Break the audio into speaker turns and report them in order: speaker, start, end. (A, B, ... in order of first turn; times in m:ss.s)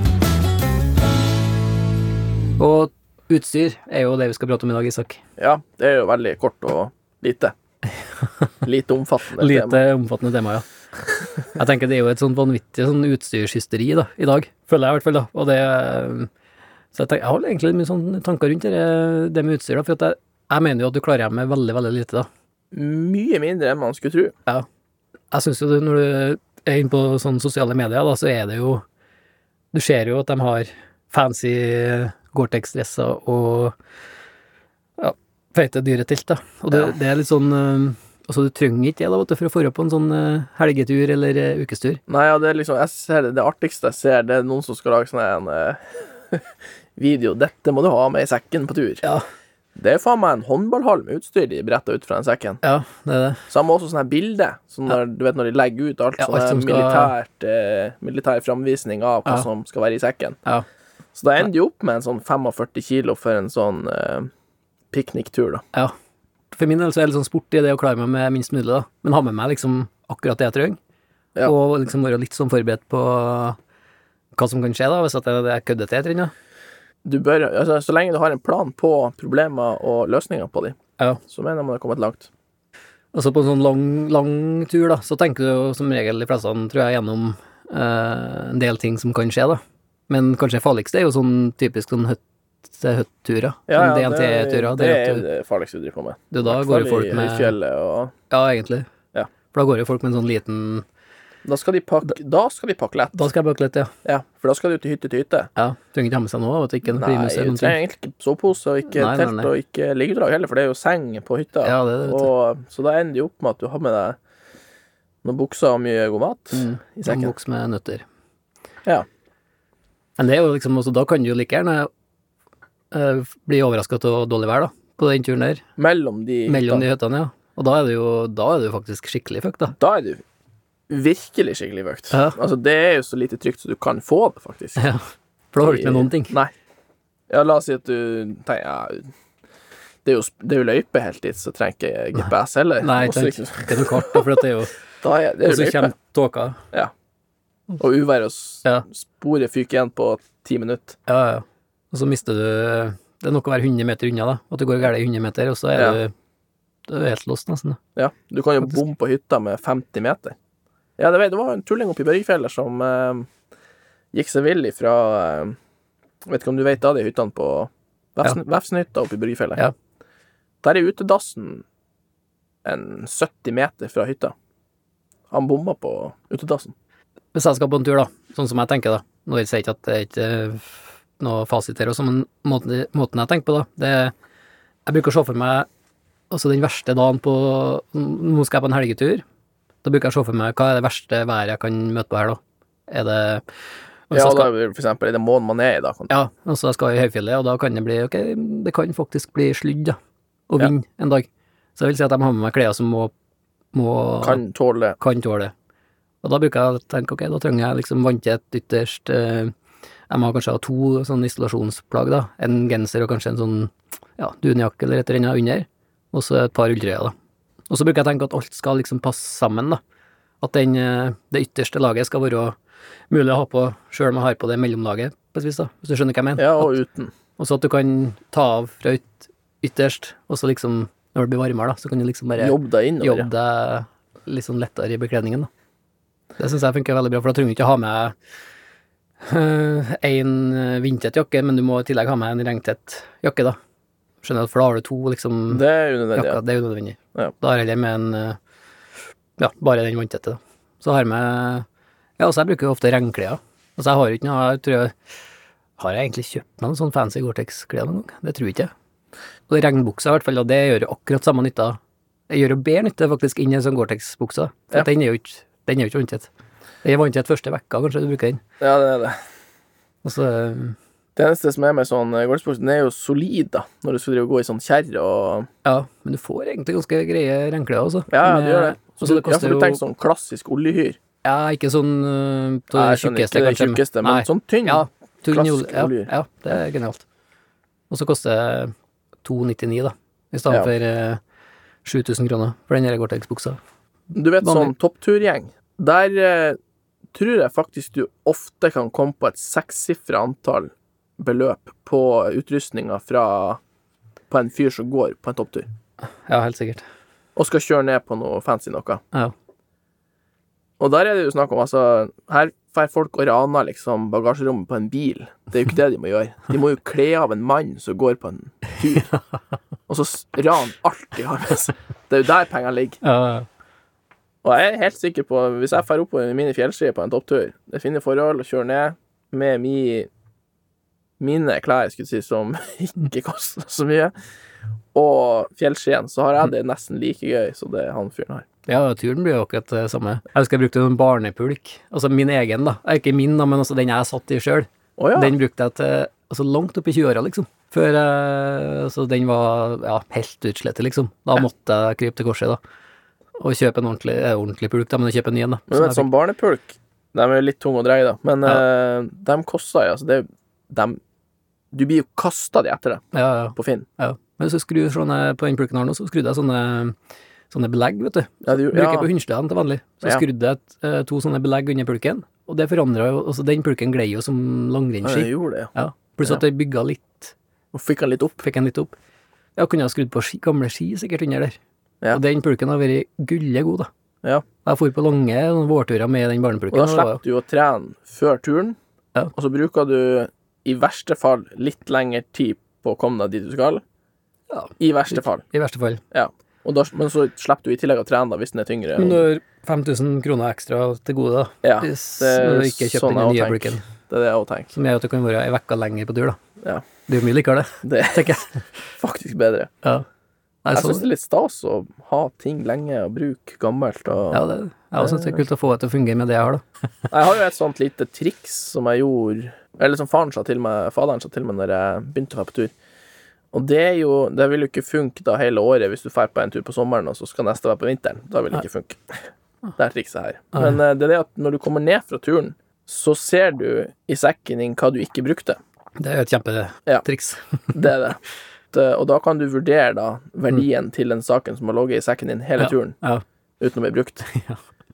0:02.6-0:05.2 A
0:05.4-0:07.5 B
0:08.6-0:09.8 B
0:09.4-0:10.7 A
0:11.6-0:16.3 A
0:16.9-0:22.3 A
0:22.7-0:24.4 B
0:25.3-0:28.8 A
0:29.7-0:33.8 A
0:35.0-0:42.0 A
0:42.1-0:49.0 B
0:49.8-0:52.6 B
0:52.6-0:53.4 A
0:53.5-1:00.4 B
0:56.2-0:57.1 A
1:01.2-1:04.3 B
1:04.9-1:05.6 B
1:06.5-1:10.8 A
1:11.4-1:13.6 A
1:14.4-1:16.3 A
1:17.0-1:22.3 B
1:23.1-1:35.3 A
1:33.7-1:38.1 B
1:36.3-1:37.6 A
1:38.3-1:38.9 A
1:39.5-1:40.8 A
1:41.4-1:43.3 B
1:43.2-1:43.9 A
1:44.0-1:45.5 B
1:45.6-1:47.8 A
1:46.8-1:54.2 B
1:48.9-1:49.5 A
1:51.6-1:52.3 A
1:55.2-1:57.4 B
1:56.5-1:58.0 A
2:00.2-2:01.9 A
2:02.9-2:05.6 A
2:05.8-2:06.9 B
2:06.5-2:09.8 A
2:09.7-2:10.2 B
2:10.9-2:14.8 B
2:12.1-2:12.4 A
2:14.8-2:16.4 A
2:15.6-2:16.5 B
2:17.3-2:19.1 B
2:20.0-2:24.3 B
2:22.8-2:24.7 A
2:25.0-2:25.9 B
2:25.4-2:26.6 A
2:27.8-2:31.0 B
2:31.1-2:36.1 A
2:35.7-2:36.0 B
2:36.9-2:37.8 A
2:38.0-2:40.4 B
2:41.0-2:43.3 B
2:44.1-2:45.6 B
2:46.2-2:49.6 B
2:50.6-2:51.6 B
2:52.6-2:54.3 B
2:55.3-2:56.7 B
2:57.3-3:04.1 A
3:04.9-3:05.7 A
3:06.3-3:09.2 A
3:09.8-3:13.4 A
3:14.1-3:14.5 A
3:14.1-3:16.1 B
3:16.1-3:20.0 A
3:20.5-3:23.1 A
3:23.7-3:24.4 A
3:24.2-3:25.0 B
3:25.0-3:25.5 A
3:26.2-3:29.5 A
3:30.1-3:37.1 A
3:37.7-3:39.8 A
3:40.4-3:42.6 A
3:43.1-3:46.8 A
3:46.4-3:47.1 B
3:47.4-3:55.5 A
3:52.4-3:53.3 B
3:56.4-3:58.2 A
3:59.2-4:03.6 A
4:04.2-4:05.6 A
4:05.5-4:06.4 B
4:06.2-4:08.4 A
4:09.4-4:11.7 A
4:12.2-4:14.9 A
4:15.8-4:18.7 A
4:19.5-4:21.8 A
4:22.3-4:26.3 A
4:26.8-4:28.4 A
4:28.6-4:29.2 B
4:30.0-4:30.8 A
4:31.2-4:35.5 B
4:35.6-4:39.8 A
4:38.1-4:41.0 B
4:41.2-4:47.0 A
4:42.7-4:46.1 B
4:47.9-4:48.7 A
4:49.2-4:51.2 A
4:51.8-4:53.6 A
4:54.1-4:56.6 B
4:54.4-4:54.7 A
4:57.1-5:03.6 B
5:04.3-5:05.7 B
5:06.0-5:06.8 A
5:07.4-5:09.0 B
5:10.8-5:19.1 B
5:19.9-5:23.0 B
5:23.0-5:23.5 A
5:24.4-5:30.1 B
5:31.2-5:34.1 B
5:34.9-5:38.5 B
5:38.7-5:52.6 A
5:45.0-5:45.4 B
5:53.4-5:56.1 A
5:55.7-6:01.0 B
6:01.7-6:03.0 B
6:03.1-6:07.0 A
6:03.6-6:03.9 B
6:07.5-6:17.3 A
6:08.4-6:09.1 B
6:15.0-6:15.7 B
6:17.7-6:18.4 B
6:18.4-6:18.9 A
6:19.6-6:21.6 A
6:22.1-6:23.9 A
6:24.6-6:27.2 A
6:26.7-6:28.8 B
6:29.4-6:33.8 B
6:34.5-6:36.0 A
6:34.8-6:35.4 B
6:36.1-6:39.3 B
6:39.0-6:43.8 A
6:41.6-6:44.7 B
6:44.7-6:46.4 A
6:46.6-6:46.9 B
6:47.1-6:48.6 A
6:47.8-6:48.3 B
6:49.0-6:49.7 B
6:50.6-6:51.1 A
6:50.7-6:54.4 B
6:54.3-6:56.6 A
6:55.0-6:55.4 B
6:57.1-7:02.7 B
7:03.5-7:09.2 B
7:09.8-7:15.6 B
7:16.0-7:17.6 A
7:17.7-7:18.2 B
7:18.7-7:23.0 B
7:22.6-7:23.2 A
7:23.6-7:24.3 B
7:24.3-7:24.6 A